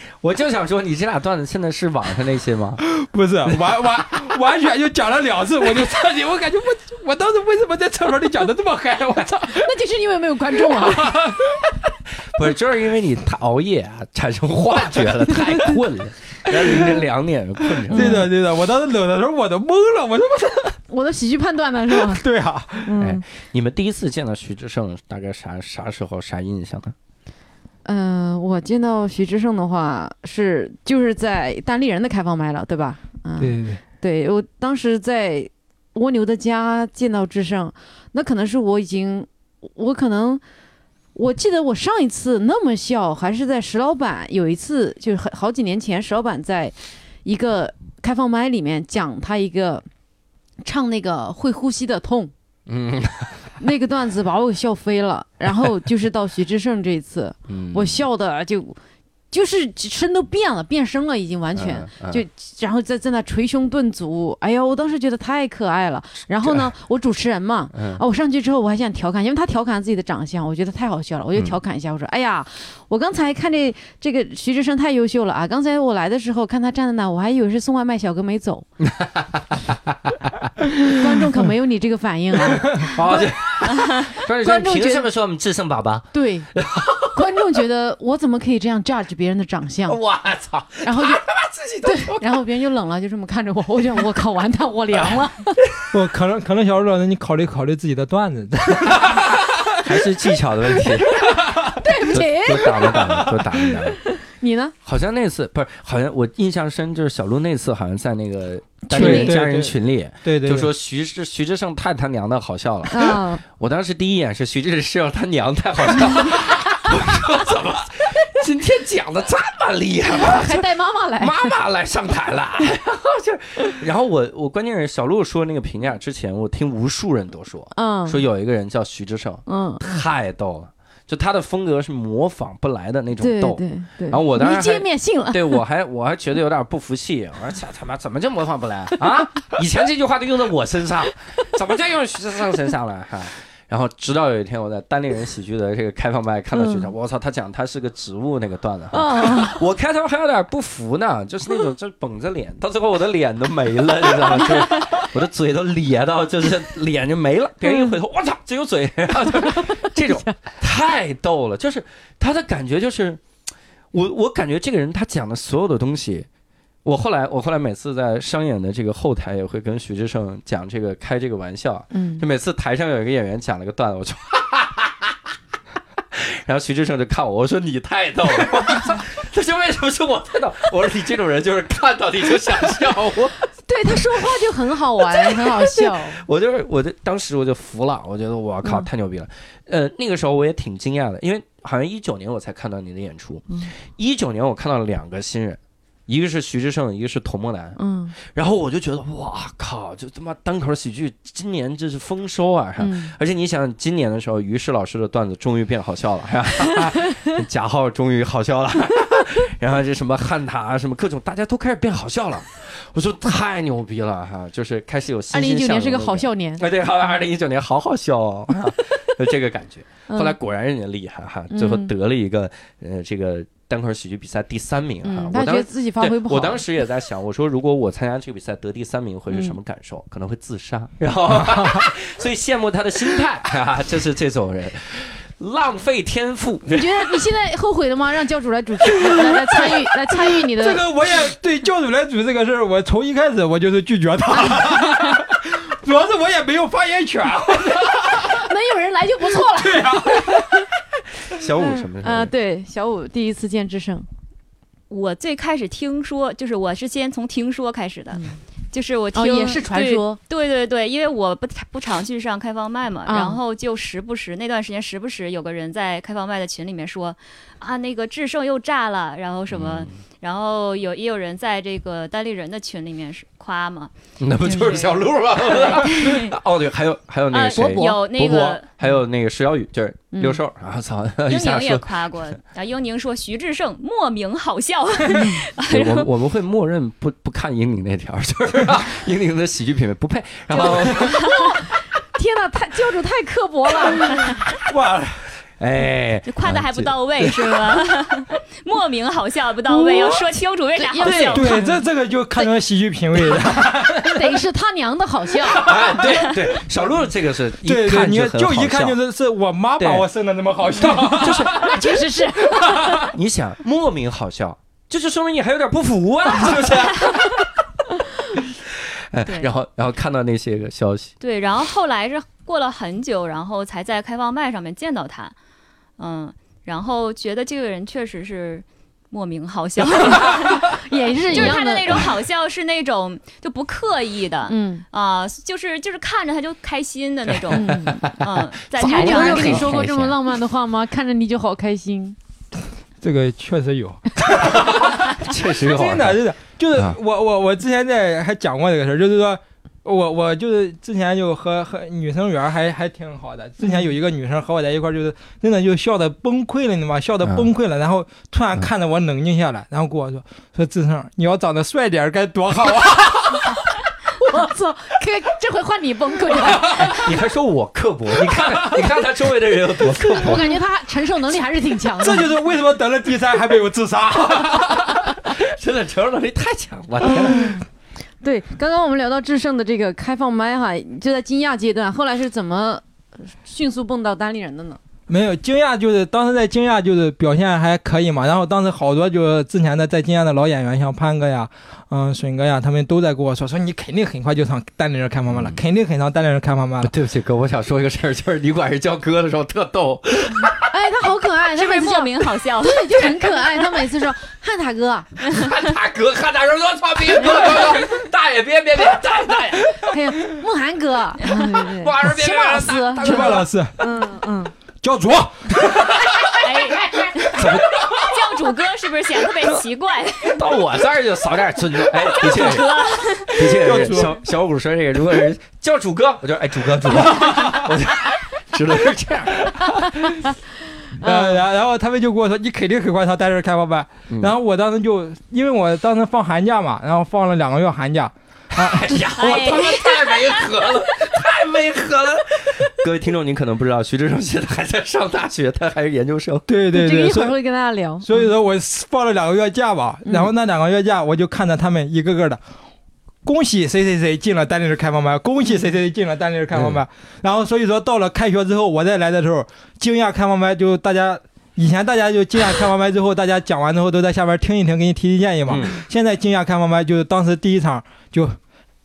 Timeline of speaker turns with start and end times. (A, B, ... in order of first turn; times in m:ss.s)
0:00.2-0:02.8 A
0:02.9-0:09.7 B
0:09.5-0:11.2 C
0:10.6-0:11.6 B
0:12.4-0:18.2 A
0:16.6-0:17.0 B
0:17.8-0:20.8 B
0:17.9-0:18.3 C
0:20.9-0:22.2 C
0:22.1-0:23.0 B
0:22.8-0:23.2 C
0:23.0-0:27.0 A
0:27.8-0:40.4 C
0:33.4-0:33.8 B
0:41.2-0:49.8 C
0:50.6-0:52.3 C
0:52.7-0:53.5 A
0:53.6-0:58.8 C
0:57.5-0:58.0 A
0:59.3-1:18.7 C
1:01.6-1:02.2 A
1:06.4-1:06.7 A
1:07.7-1:08.0 A
1:18.8-1:20.1 A
1:20.9-1:25.1 C
1:22.9-1:27.3 A
1:26.1-1:30.0 C
1:29.9-1:32.4 A
1:30.8-1:31.3 C
1:31.8-1:35.6 C
1:35.9-1:40.1 B
1:39.8-1:41.3 A
1:41.2-1:41.8 B
1:41.8-1:43.0 C
1:42.0-1:44.0 A
1:43.1-1:43.4 B
1:44.1-1:44.7 C
1:44.8-2:43.2 A
1:48.9-1:49.4 C
1:48.9-1:50.7 B
1:52.9-1:53.4 C
2:00.1-2:01.6 C
2:07.7-2:08.2 C
2:09.5-2:09.8 C
2:13.2-2:15.6 C
2:26.6-2:26.9 C
2:28.9-2:29.6 C
2:37.6-2:38.0 C
2:39.3-2:40.4 C
2:43.9-2:46.3 A
2:46.8-2:55.3 A
2:51.9-2:52.2 C
2:56.1-3:03.4 A
3:03.7-3:06.2 C
3:05.1-3:17.8 A
3:17.8-3:18.2 C
3:18.3-3:57.2 A
3:22.8-3:23.1 C
3:35.3-3:36.6 C
3:40.1-3:40.4 C
3:41.5-3:41.9 C
3:45.0-3:46.6 C
3:49.3-3:49.6 C
3:51.5-3:51.8 B
3:56.7-4:00.8 C
3:59.1-4:08.5 B
4:04.4-4:05.1 C
4:08.3-4:10.7 C
4:09.5-4:10.7 B
4:11.3-4:12.3 A
4:11.6-4:14.1 C
4:14.9-4:36.4 D
4:19.1-4:20.2 C
4:23.1-4:23.4 C
4:29.5-4:30.0 A
4:34.2-4:41.9 A
4:37.3-4:38.7 D
4:37.5-4:38.0 C
4:40.1-4:40.4 C
4:41.3-4:46.1 D
4:45.2-4:51.2 A
4:50.5-4:51.5 D
4:51.0-4:54.4 C
4:54.7-4:55.2 B
4:55.6-4:57.8 A
4:56.3-5:01.6 D
4:59.7-5:00.2 C
5:00.8-5:01.8 C
5:01.0-5:04.4 B
5:04.0-5:05.7 C
5:05.6-5:09.0 A
5:05.7-5:06.3 B
5:07.6-5:11.9 B
5:09.8-5:10.1 A
5:10.8-5:11.8 A
5:11.0-5:13.0 C
5:12.4-5:13.1 B
5:13.1-5:17.5 A
5:18.7-5:21.1 A
5:19.2-5:19.5 D
5:21.2-5:25.3 D
5:26.0-5:30.8 D
5:30.6-5:32.1 C
5:31.3-5:39.7 D
5:31.3-5:32.1 A
5:34.5-5:34.8 C
5:37.3-5:40.2 A
5:37.5-5:38.0 C
5:38.8-5:42.2 C
5:43.0-6:03.7 B
5:44.5-5:46.2 A
6:04.2-6:07.0 C
6:06.5-6:07.1 B
6:06.6-6:10.6 A
6:08.3-6:08.9 B
6:10.0-6:12.3 C
6:12.0-6:15.0 B
6:14.8-6:17.6 A
6:18.2-6:24.8 C
6:25.1-6:36.9 B
6:35.3-6:35.6 A
6:36.8-6:40.7 A
6:40.7-6:45.2 C
6:41.6-6:43.4 D
6:45.3-6:49.9 A
6:49.9-6:54.5 C
6:51.7-6:53.5 A
6:53.0-6:53.8 B
6:54.8-6:56.0 B
6:55.9-6:56.4 A
6:56.4-7:00.4 D
6:57.0-6:58.2 A
7:00.2-7:09.5 A
7:02.0-7:03.6 D
7:03.4-7:04.2 B
7:06.9-7:07.7 B
7:11.0-7:11.4 C
7:11.0-7:19.7 B
7:14.1-7:14.3 A
7:18.5-7:26.4 A
7:19.2-7:20.5 D
7:26.5-7:27.4 B
7:26.7-7:28.3 C
7:28.0-7:32.4 B
7:33.2-7:48.4 B
7:36.5-7:36.8 A
7:45.5-7:45.8 A